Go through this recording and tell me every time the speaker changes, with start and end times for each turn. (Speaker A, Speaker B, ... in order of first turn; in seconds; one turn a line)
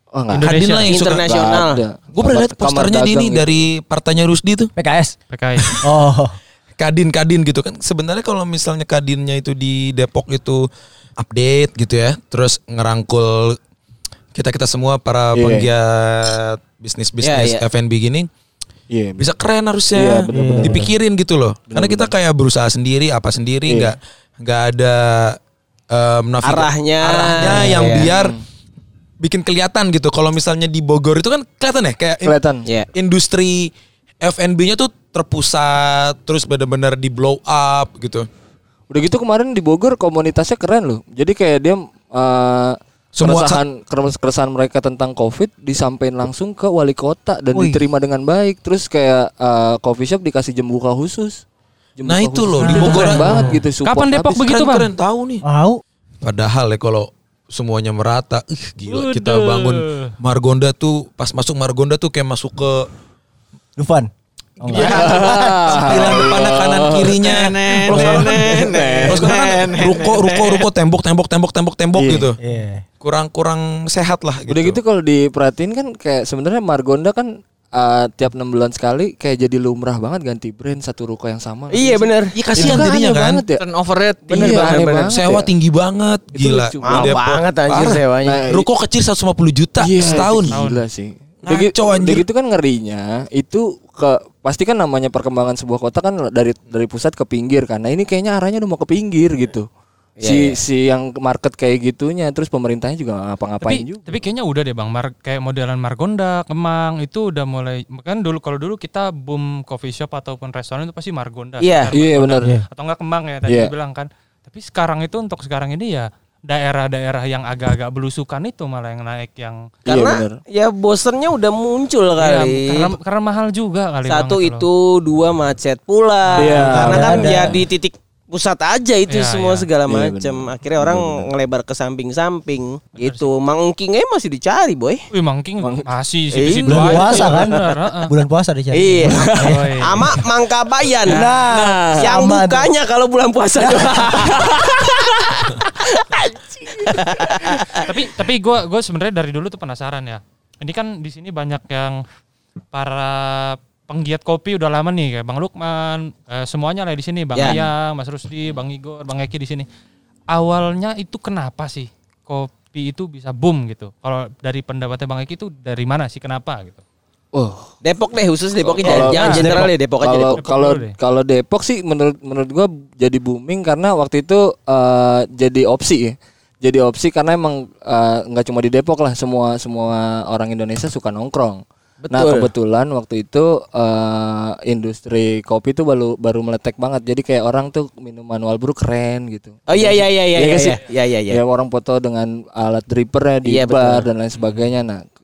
Speaker A: 0.1-0.5
Speaker B: 0.3-1.0
Speaker C: 0.4-1.2
Speaker D: 0.9-1.8
Speaker A: 1.0-3.6
Speaker C: 2.1-4.7
Speaker E: 4.8-5.2
Speaker B: 5.3-5.8
Speaker E: 5.8-6.4
Speaker C: 6.8-10.7
Speaker C: 11.2-13.6
Speaker C: 14.3-18.3
Speaker A: 15.3-15.7
Speaker D: 17.2-17.6
Speaker A: 18.9-19.3
Speaker C: 19.2-25.4
Speaker A: 19.9-20.9
Speaker E: 20.3-20.9
Speaker A: 21.7-22.1
Speaker A: 23.7-23.9
Speaker C: 25.9-28.4
Speaker D: 26.4-28.1
Speaker A: 27.8-28.4
Speaker C: 29.2-32.3
Speaker A: 32.2-32.7
Speaker C: 32.9-38.3
Speaker A: 38.9-51.4
Speaker C: 43.2-43.6
Speaker E: 47.5-47.8
Speaker A: 52.0-54.5
Speaker C: 52.0-53.4
Speaker E: 52.6-53.6
Speaker B: 52.7-54.9
Speaker C: 54.4-55.4
Speaker E: 55.4-55.8
Speaker C: 56.2-62.9
Speaker B: 58.9-60.1
Speaker E: 63.8-65.8
Speaker C: 64.7-68.5
Speaker A: 64.7-67.1
Speaker D: 64.8-67.1
Speaker F: 67.2-70.6
Speaker A: 67.9-69.3
Speaker C: 69.1-72.4
Speaker A: 72.0-72.3
Speaker E: 72.4-72.8
Speaker C: 73.0-74.8
Speaker A: 74.5-83.6
Speaker D: 81.7-82.4
Speaker C: 82.3-83.4
Speaker F: 83.6-85.1
Speaker A: 84.3-85.5
Speaker D: 84.3-84.8
Speaker C: 85.1-90.5
Speaker A: 86.3-87.2
Speaker D: 86.8-88.4
Speaker A: 88.2-88.7
Speaker A: 89.8-99.7
Speaker B: 90.0-90.8
Speaker C: 91.4-92.2
Speaker D: 100.2-100.6
Speaker A: 100.2-104.2
Speaker B: 103.6-119.7
Speaker D: 111.6-111.9
Speaker A: 111.9-112.5
Speaker A: 113.5-113.7
Speaker A: 119.9-120.4
Speaker D: 119.9-122.9
Speaker B: 122.2-124.7
Speaker D: 124.1-135.0
Speaker B: 126.3-127.1
Speaker A: 126.4-127.3
Speaker E: 126.7-127.6
Speaker B: 129.1-129.7
Speaker A: 129.9-131.3
Speaker B: 132.9-133.3
Speaker B: 135.1-138.1
Speaker A: 135.6-135.9
Speaker D: 136.3-137.6
Speaker E: 136.7-140.2
Speaker D: 138.7-148.0
Speaker B: 139.4-140.0
Speaker E: 141.1-142.7
Speaker B: 141.1-141.4
Speaker E: 143.6-144.5
Speaker B: 147.8-152.0
Speaker B: 152.7-159.7
Speaker B: 160.3-166.8
Speaker A: 167.3-167.7
Speaker D: 167.8-170.4
Speaker A: 168.7-195.0
Speaker E: 168.8-169.7
Speaker B: 169.0-169.6
Speaker B: 170.4-170.9
Speaker D: 182.0-182.5
Speaker D: 189.7-191.4
Speaker D: 193.5-194.1